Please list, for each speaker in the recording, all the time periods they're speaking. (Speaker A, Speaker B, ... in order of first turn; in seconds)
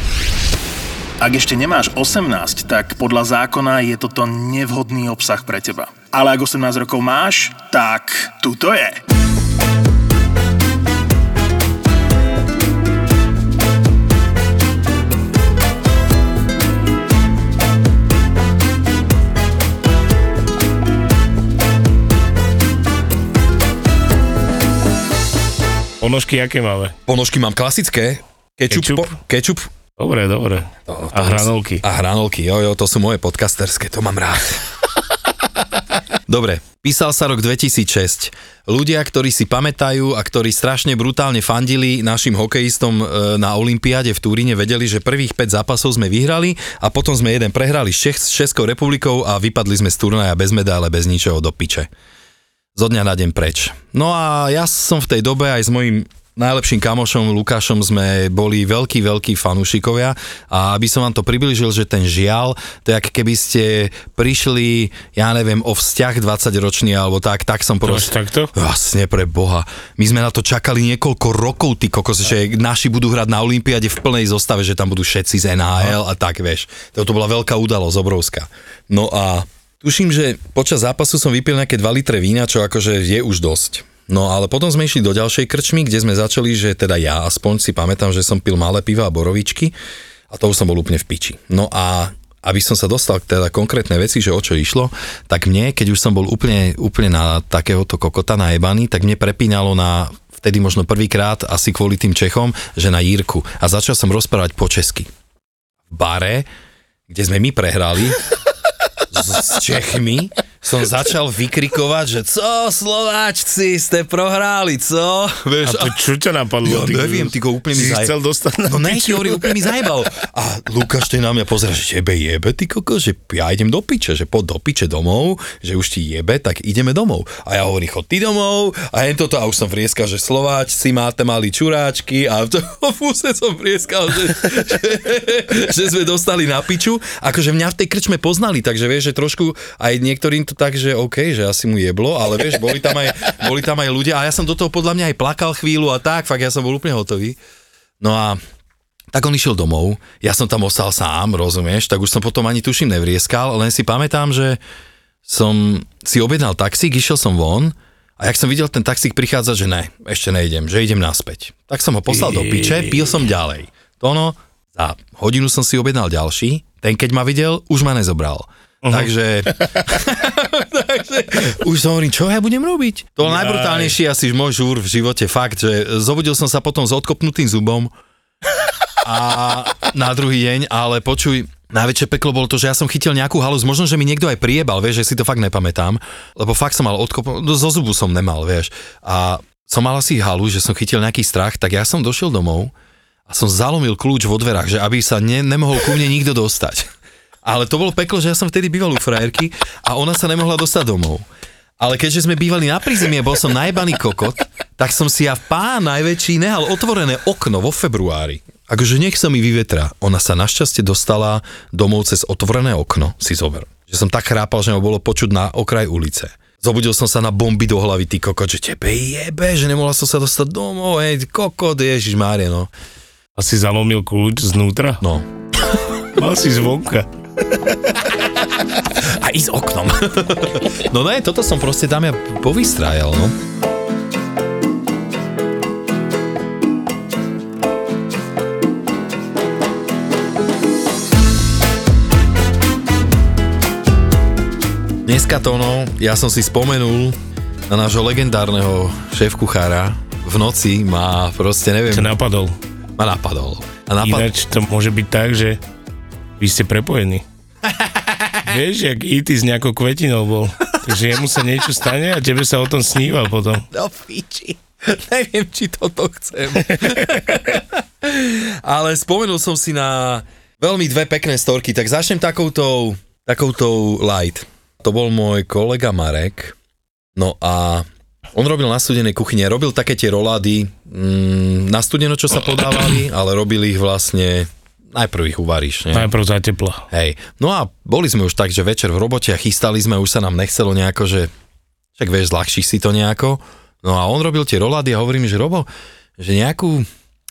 Speaker A: 1.2-9.0
Speaker B: 26.0-26.9, 28.7-29.1, 30.0-31.8, 67.8-68.5, 115.6-119.7, 162.1-163.2, 168.8-169.7, 173.2-174.0, 223.4-225.0, 226.1-228.0, 251.9-252.5, 254.0-255.6, 256.4-257.2, 258.4-263.7, 266.6-267.4, 285.9-286.9
Speaker C: 27.1-29.7, 30.9-34.6, 36.3-51.9, 52.7-89.7, 90.3-105.1, 105.9-106.5, 107.1-108.2, 109.1-116.0, 116.6-118.1, 118.7-147.4, 148.0-148.4, 149.1-154.6, 155.2-177.9, 179.0-192.7, 193.3-196.9, 197.4-201.2, 201.8-222.7, 225.0-225.3, 228.9-233.4, 245.0-252.1, 253.0-254.3, 257.6-258.5, 263.7-276.6, 277.1-286.1, 286.9-291.3, 292.0-296.9